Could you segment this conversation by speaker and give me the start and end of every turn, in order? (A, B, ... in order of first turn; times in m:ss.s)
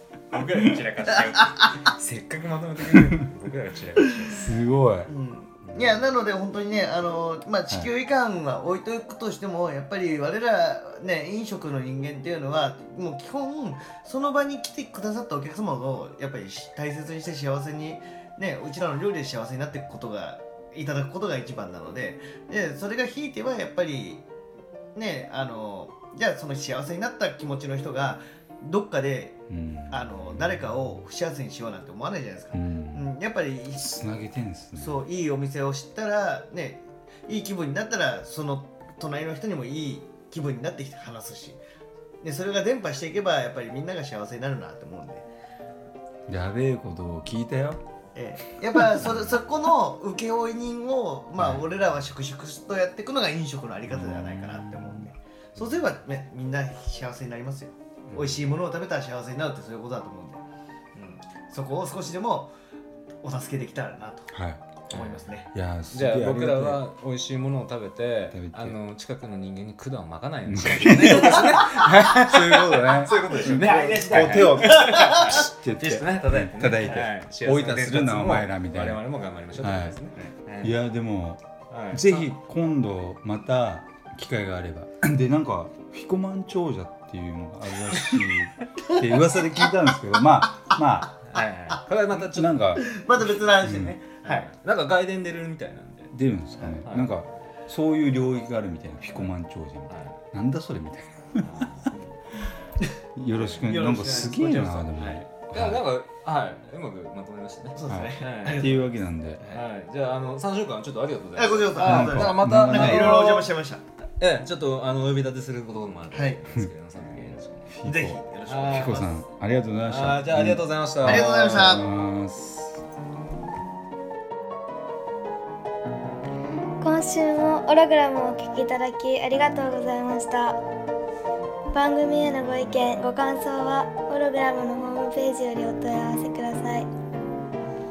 0:00.3-0:04.5 A
0:01.1-0:01.9 B
0:02.9-0:03.2 C
0:04.3-0:05.1 C
0:05.1-0:24.2 B
0:05.6-0:06.0 A
0:24.9-0:29.4 B
0:29.5-0:30.5 C
0:29.9-0:34.0 B
0:32.5-0:33.1 C
0:33.7-0:35.0 C
0:34.7-0:41.6 B
0:42.2-0:45.2 B
0:46.3-0:47.8 C
0:48.1-1:00.4 B
0:48.7-0:49.2 C
0:53.9-0:55.1 C
0:58.1-0:58.4 A
1:00.9-1:02.5 B
1:03.2-1:04.3 B
1:04.3-1:04.8 C
1:04.9-1:05.5 B
1:04.9-1:20.7 A
1:05.5-1:06.8 C
1:08.3-1:08.8 C
1:10.5-1:11.6 C
1:12.1-1:19.0 C
1:13.1-1:15.4 B
1:19.5-1:20.0 C
1:20.6-1:31.2 C
1:21.7-1:22.3 A
1:28.9-1:29.3 B
1:31.2-1:32.6 A
1:32.1-1:32.9 C
1:32.8-1:34.5 B
1:33.6-1:33.9 C
1:34.2-1:36.1 A
1:36.1-1:41.7 C
1:36.7-1:37.2 A
1:39.1-1:39.3 A
1:39.9-1:40.2 A
1:41.4-1:42.2 A
1:43.2-1:45.8 C
1:43.3-1:48.8 A
1:43.7-1:44.5 B
1:47.7-1:48.9 B
1:47.9-1:49.6 C
1:49.4-1:53.5 A
1:51.4-1:53.8 B
1:51.8-1:53.2 C
1:54.2-1:57.7 A
1:56.1-1:56.4 B
1:57.7-2:02.8 C
1:57.8-1:59.2 B
1:58.5-1:59.2 A
1:59.8-2:01.9 A
2:01.0-2:01.9 B
2:06.8-2:10.6 D
2:11.7-2:16.9 D